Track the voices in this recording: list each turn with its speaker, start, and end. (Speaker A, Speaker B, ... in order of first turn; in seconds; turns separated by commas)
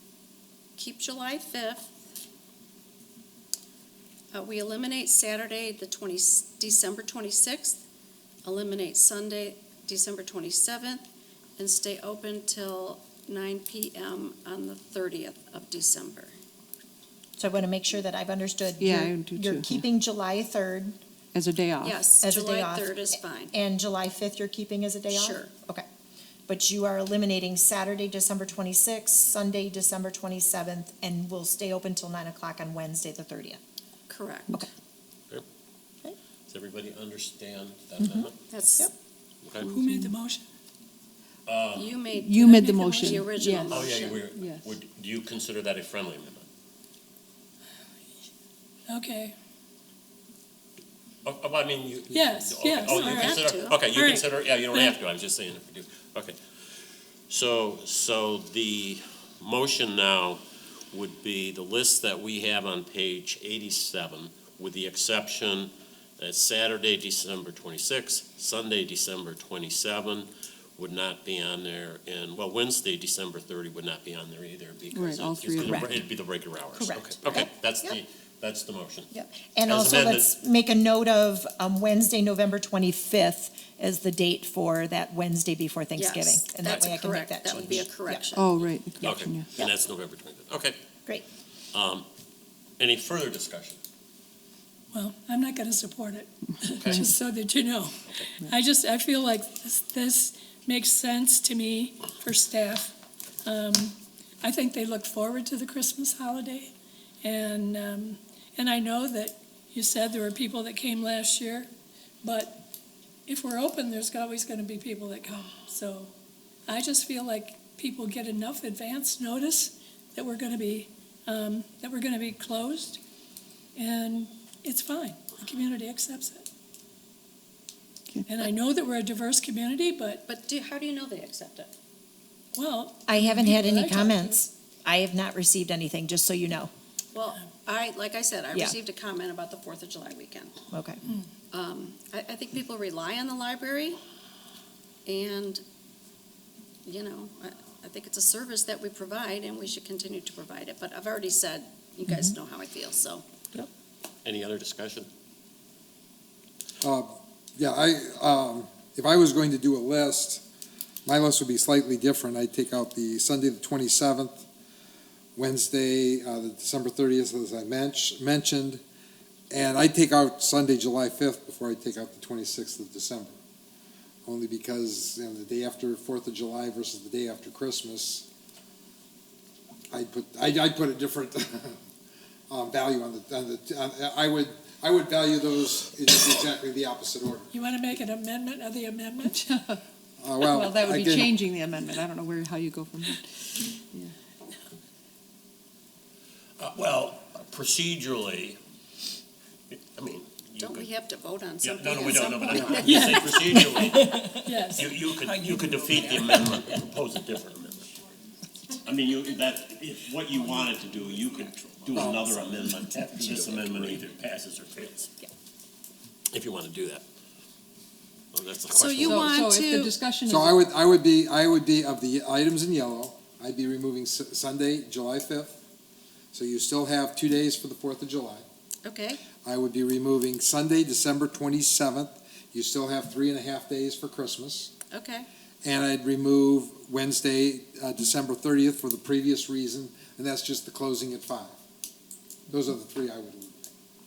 Speaker A: 0.8-1.9, Speaker A: 4.3-7.8, Speaker A: 8.4-11.0, Speaker A: 11.6-16.3, Speaker B: 17.4-21.0, Speaker C: 18.8-19.9, Speaker C: 21.3-22.1, Speaker A: 21.8-23.5, Speaker B: 22.2-25.9, Speaker A: 25.1-25.5, Speaker B: 26.5-33.6, Speaker A: 34.1-34.5, Speaker D: 36.5-38.4, Speaker B: 38.0-38.9, Speaker A: 38.5-38.9, Speaker D: 39.4-39.7, Speaker E: 39.6-40.4, Speaker C: 39.8-40.2, Speaker D: 41.5-42.0, Speaker A: 41.8-44.2, Speaker C: 42.1-44.7, Speaker E: 42.5-43.2, Speaker D: 43.7-46.5, Speaker E: 48.9-49.3, Speaker D: 51.2-56.4, Speaker E: 52.1-55.0, Speaker A: 52.9-53.8, Speaker D: 57.3-79.1, Speaker C: 74.9-76.0, Speaker B: 75.6-75.9, Speaker B: 76.8-78.0, Speaker B: 79.1-88.2, Speaker D: 79.6-80.3, Speaker A: 86.0-88.5, Speaker C: 88.3-89.5, Speaker D: 89.0-90.8, Speaker D: 91.7-92.0, Speaker D: 92.8-93.8, Speaker E: 94.9-102.9, Speaker D: 96.8-97.0, Speaker E: 103.5-111.7, Speaker E: 112.2-112.6, Speaker E: 113.3-116.1, Speaker E: 116.7-123.0, Speaker E: 123.8-126.5, Speaker C: 128.1-128.5, Speaker E: 128.3-130.2, Speaker A: 130.2-131.7, Speaker E: 132.5-134.4, Speaker B: 133.1-136.7, Speaker A: 137.1-140.6, Speaker B: 140.7-141.0, Speaker A: 141.5-144.0, Speaker A: 145.0-145.6, Speaker A: 146.8-153.2, Speaker B: 152.1-152.3, Speaker D: 154.2-155.1, Speaker F: 156.8-160.4, Speaker F: 161.1-164.4, Speaker F: 165.3-168.8, Speaker F: 169.5-173.3, Speaker F: 174.2-178.2, Speaker F: 179.9-181.8, Speaker F: 182.5-187.5, Speaker E: 187.5-189.3, Speaker C: 189.2-189.8, Speaker F: 190.2-191.3, Speaker C: 190.4-193.3, Speaker D: 196.6-198.6, Speaker D: 199.7-200.9, Speaker A: 200.6-203.4, Speaker D: 201.6-207.9, Speaker E: 202.8-204.9, Speaker C: 203.8-204.4, Speaker D: 208.8-215.1, Speaker D: 216.3-217.0, Speaker D: 218.3-219.4, Speaker A: 218.7-219.9, Speaker C: 219.0-220.6, Speaker F: 220.3-225.6, Speaker F: 226.3-228.4, Speaker A: 228.8-229.2, Speaker F: 229.4-234.7, Speaker A: 234.9-235.3, Speaker F: 235.6-241.5, Speaker F: 242.5-243.6